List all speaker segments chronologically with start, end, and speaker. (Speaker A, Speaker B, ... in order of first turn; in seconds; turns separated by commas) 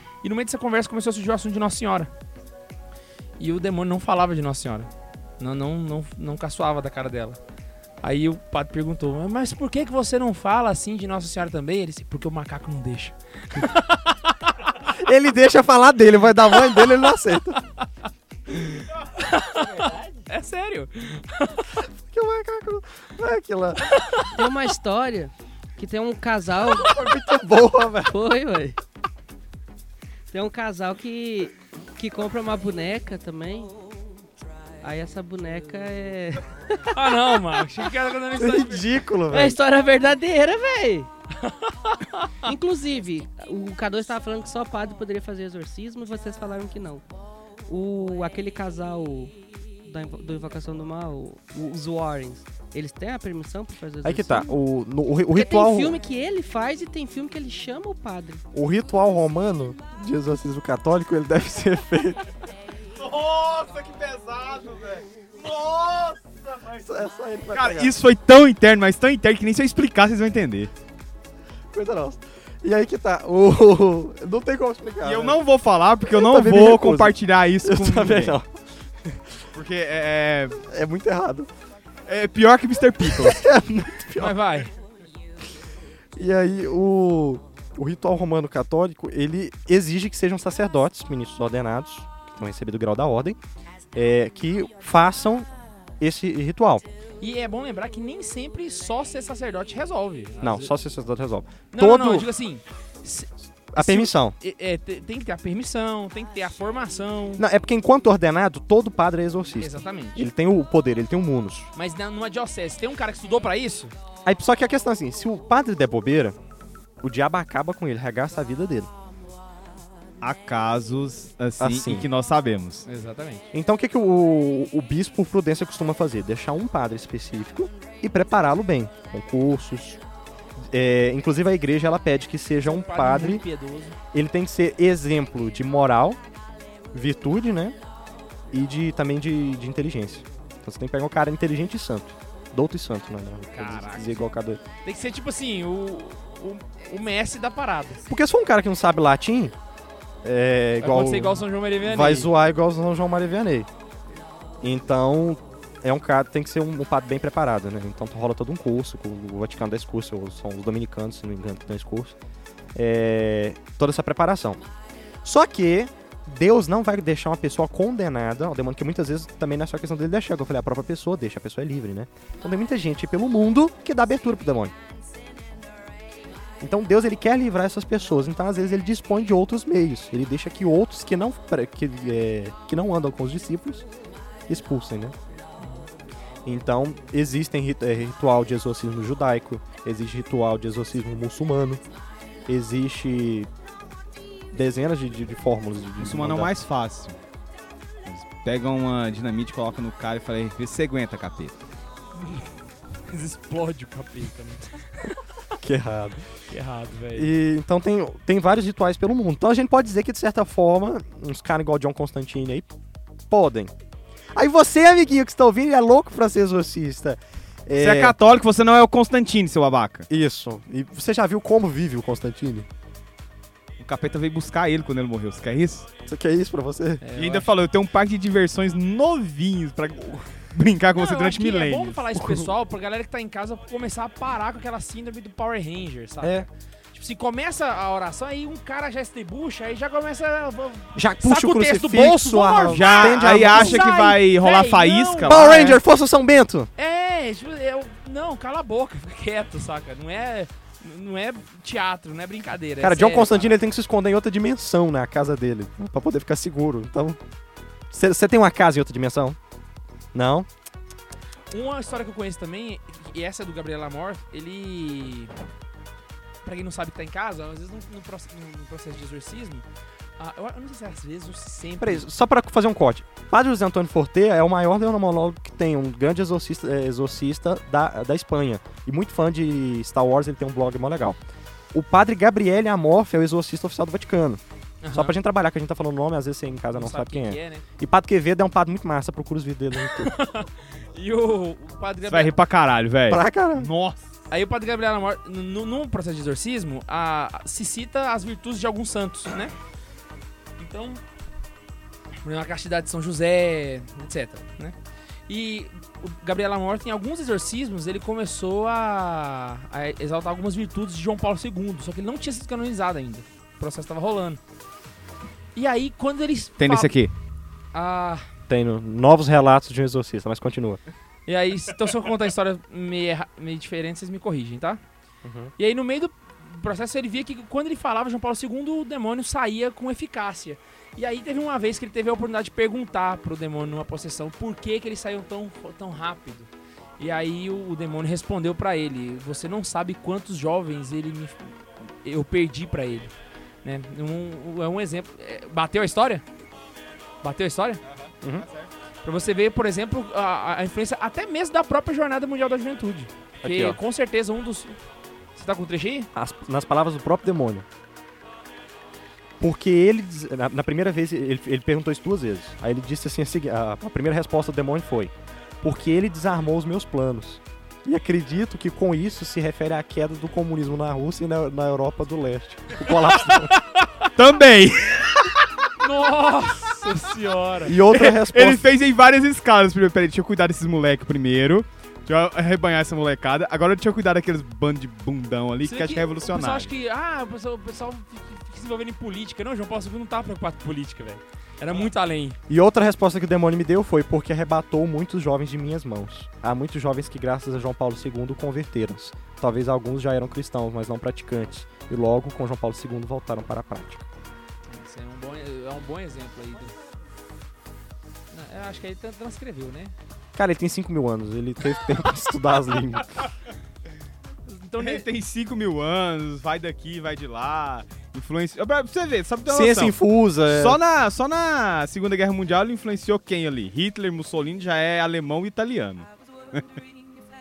Speaker A: 0.2-2.1, Speaker A: 3.4-7.4, Speaker A: 8.0-14.5, Speaker B: 14.9-17.6, Speaker A: 18.5-21.7, Speaker B: 21.8-23.9, Speaker A: 23.8-24.4, Speaker C: 24.3-27.3, Speaker B: 26.7-28.1, Speaker C: 28.0-28.8, Speaker C: 30.3-33.8, Speaker C: 34.8-37.7, Speaker A: 36.9-38.9, Speaker B: 38.4-39.6, Speaker C: 39.3-41.1, Speaker A: 41.4-42.5, Speaker C: 42.4-47.0, Speaker C: 47.7-54.6, Speaker B: 54.0-56.0, Speaker C: 55.3-58.4, Speaker B: 58.5-62.2, Speaker D: 62.9-66.8, Speaker B: 66.8-67.9, Speaker D: 67.5-70.7, Speaker B: 71.7-75.4, Speaker D: 75.0-78.4, Speaker B: 76.1-78.5, Speaker D: 79.5-80.6, Speaker B: 80.5-81.5, Speaker D: 82.1-83.4, Speaker B: 83.0-84.4, Speaker A: 84.2-84.7, Speaker B: 86.2-93.4, Speaker B: 93.9-95.5, Speaker B: 96.0-96.8, Speaker A: 97.2-100.7, Speaker B: 100.4-102.3, Speaker A: 101.7-107.4, Speaker B: 103.7-104.3, Speaker B: 107.4-111.7, Speaker A: 109.6-110.3, Speaker A: 111.7-113.9, Speaker B: 114.2-116.3, Speaker B: 117.0-118.9, Speaker D: 120.2-122.9, Speaker B: 121.6-122.1, Speaker A: 122.9-123.5, Speaker B: 123.5-130.0, Speaker B: 130.6-133.4, Speaker A: 132.6-134.0, Speaker B: 134.1-136.2, Speaker B: 136.9-137.8, Speaker B: 138.5-144.6, Speaker A: 143.5-144.2, Speaker A: 144.8-148.0, Speaker B: 148.1-149.5, Speaker B: 150.2-153.7, Speaker A: 150.8-152.3, Speaker B: 154.6-162.2, Speaker B: 162.7-164.6, Speaker B: 165.2-174.7, Speaker B: 176.6-183.9, Speaker B: 184.5-185.2, Speaker A: 185.6-185.9, Speaker B: 186.4-191.8, Speaker B: 192.5-193.5, Speaker B: 194.5-196.5, Speaker D: 196.0-197.2, Speaker D: 198.0-201.5, Speaker A: 202.2-202.5, Speaker A: 203.1-205.2, Speaker B: 205.6-206.2, Speaker A: 206.5-207.3, Speaker B: 207.1-212.7, Speaker B: 213.3-213.7, Speaker B: 214.3-218.2, Speaker D: 217.8-220.1, Speaker B: 220.1-222.7, Speaker D: 223.8-225.9, Speaker B: 226.0-227.0, Speaker A: 227.0-227.5, Speaker D: 227.2-232.0, Speaker A: 230.9-245.8, Speaker B: 232.2-232.5, Speaker B: 236.2-236.5, Speaker B: 240.9-243.9, Speaker D: 242.7-245.7, Speaker B: 245.2-246.7, Speaker A: 246.8-253.5, Speaker B: 252.8-257.2, Speaker B: 257.9-259.4, Speaker B: 260.1-260.5, Speaker A: 261.5-265.3, Speaker A: 266.4-269.6, Speaker A: 270.2-272.1, Speaker B: 271.8-281.2, Speaker B: 281.7-284.4, Speaker A: 284.8-285.1, Speaker B: 284.9-290.1, Speaker A: 286.7-287.6, Speaker A: 289.8-292.3, Speaker D: 292.1-294.0, Speaker B: 293.1-293.7, Speaker A: 294.3-299.5, Speaker A: 300.6-301.0, Speaker A: 302.2-304.8, Speaker A: 305.3-314.4, Speaker A: 315.5-316.9, Speaker D: 316.6-317.1, Speaker A: 317.7-318.2, Speaker B: 318.5-320.8, Speaker A: 321.2-324.8, Speaker B: 325.2-325.5, Speaker A: 325.6-343.1, Speaker A: 343.6-346.2, Speaker A: 347.2-347.8, Speaker D: 347.8-348.7, Speaker B: 348.2-348.5, Speaker A: 349.0-354.8, Speaker B: 353.4-353.8, Speaker A: 355.3-356.1, Speaker B: 356.1-357.6, Speaker B: 359.4-373.6, Speaker A: 373.3-374.0, Speaker D: 374.1-375.5, Speaker A: 375.8-377.8, Speaker B: 377.6-378.7, Speaker D: 377.9-386.7, Speaker A: 385.6-392.4, Speaker B: 392.5-404.1, Speaker A: 404.7-406.8, Speaker A: 408.3-409.9, Speaker B: 410.3-413.2, Speaker A: 414.4-415.1, Speaker D: 414.8-426.6, Speaker B: 419.5-420.8